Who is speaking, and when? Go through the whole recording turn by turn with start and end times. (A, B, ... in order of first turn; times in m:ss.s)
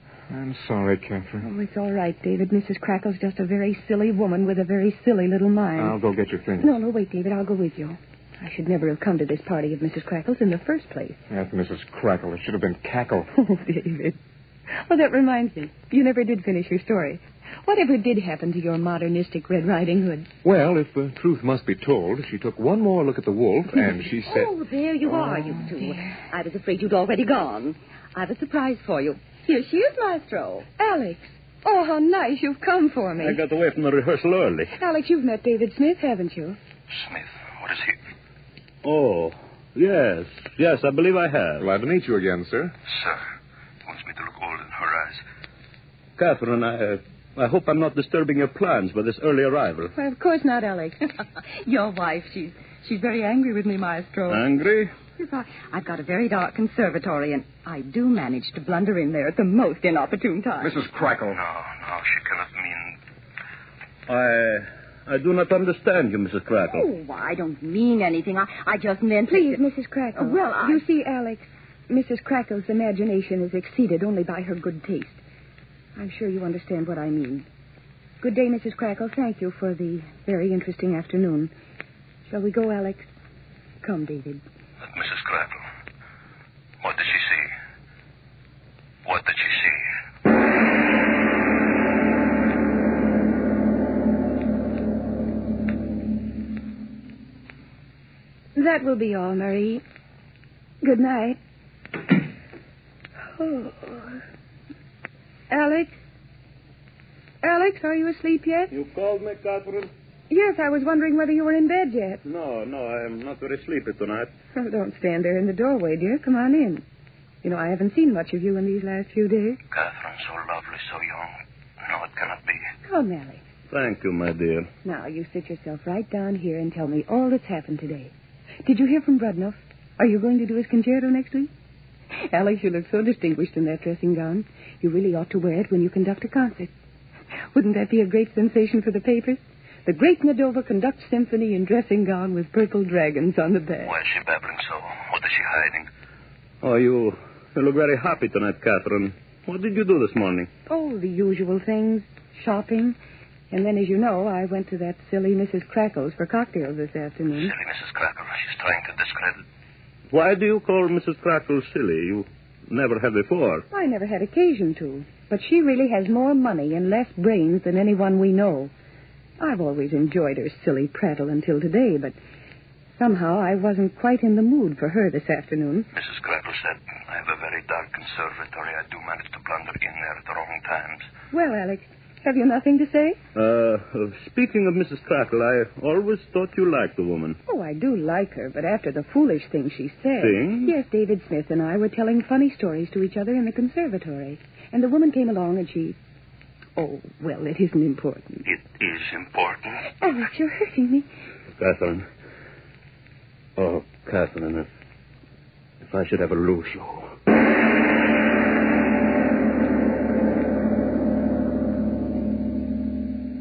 0:00.3-0:01.4 A
0:01.4-0:06.0 B
0:05.8-0:06.7 A
0:06.6-0:11.2 B
0:11.3-0:13.3 A
0:13.3-0:14.2 B
0:14.9-0:20.3 B
0:20.4-0:24.5 A
0:24.2-0:30.7 C
0:30.8-0:33.4 B
0:33.2-0:34.7 D
0:34.8-0:36.6 B
0:36.9-0:38.0 E
0:38.8-0:41.7 D
0:41.6-0:42.7 A
0:42.9-0:43.2 E
0:43.8-0:45.2 E
0:46.2-0:49.9 D
0:50.0-0:51.0 B
0:51.5-0:54.4 C
0:54.3-0:54.9 D
0:55.2-1:00.9 C
1:00.8-1:01.3 A
1:01.2-1:03.0 E
1:04.1-1:06.9 D
1:06.7-1:09.6 C
1:09.3-1:15.2 B
1:10.2-1:10.8 C
1:16.0-1:17.5 B
1:18.2-1:21.5 B
1:22.3-1:23.1 B
1:23.8-1:24.4 B
1:24.8-1:25.6 E
1:26.8-1:27.5 E
1:29.0-1:29.8 E
1:38.6-1:39.8 B
1:40.8-1:41.4 B
1:43.4-1:44.2 B
1:45.5-1:46.0 B
1:47.4-1:48.7 B
1:48.7-1:49.9 D
1:50.3-1:52.2 B
1:52.2-1:54.3 D
1:54.6-1:56.8 B
1:57.4-1:59.6 B
1:59.7-2:02.7 E
2:02.8-2:03.4 B
2:03.7-2:04.7 D
2:04.8-2:08.1 B
2:08.6-2:11.5 B
2:12.2-2:16.7 B
2:17.5-2:23.9 B
2:23.8-2:25.9 E
2:26.6-2:30.5 D
2:30.7-2:33.0 B
2:33.5-2:37.5 B
2:37.3-2:39.4 E
2:40.1-2:43.6 D
2:43.7-2:48.7 B
2:49.4-2:52.2 B
2:53.0-2:55.9 B
2:55.9-3:01.1 E
3:01.3-3:03.2 B
3:03.4-3:07.4 D
3:07.5-3:16.0 B
3:10.2-3:10.7 D
3:16.8-3:18.4 B
3:18.5-3:19.8 E
3:20.0-3:21.1 B
3:21.6-3:22.1 D
3:23.6-3:24.7 D
3:25.8-3:27.2 D